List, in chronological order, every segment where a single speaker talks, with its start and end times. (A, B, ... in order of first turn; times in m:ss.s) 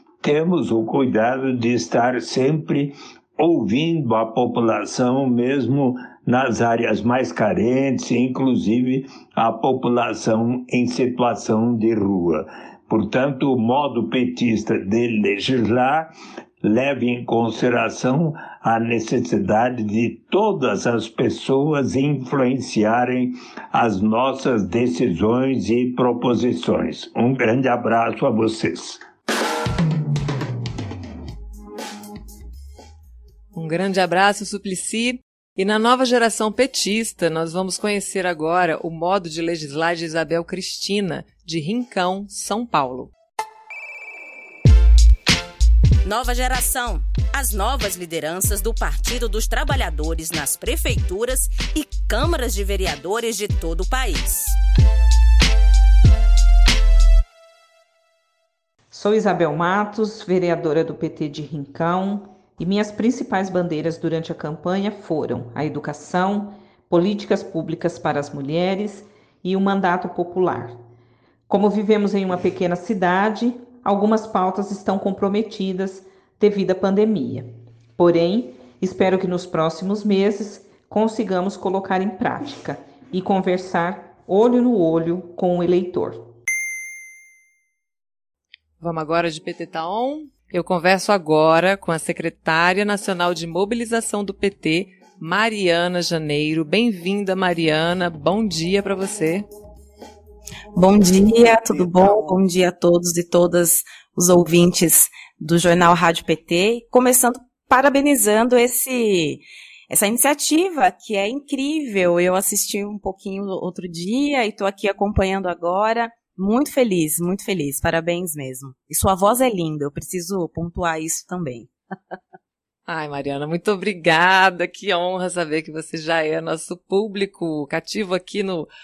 0:00.2-0:16.1 A
0:16.6-0:29.0 A
0:33.5-0:43.1 B
0:46.0-0:54.6 C
0:58.9-1:10.8 D
1:11.5-1:26.2 D
1:28.8-1:39.5 B
1:40.8-2:02.1 E
2:02.9-2:08.7 B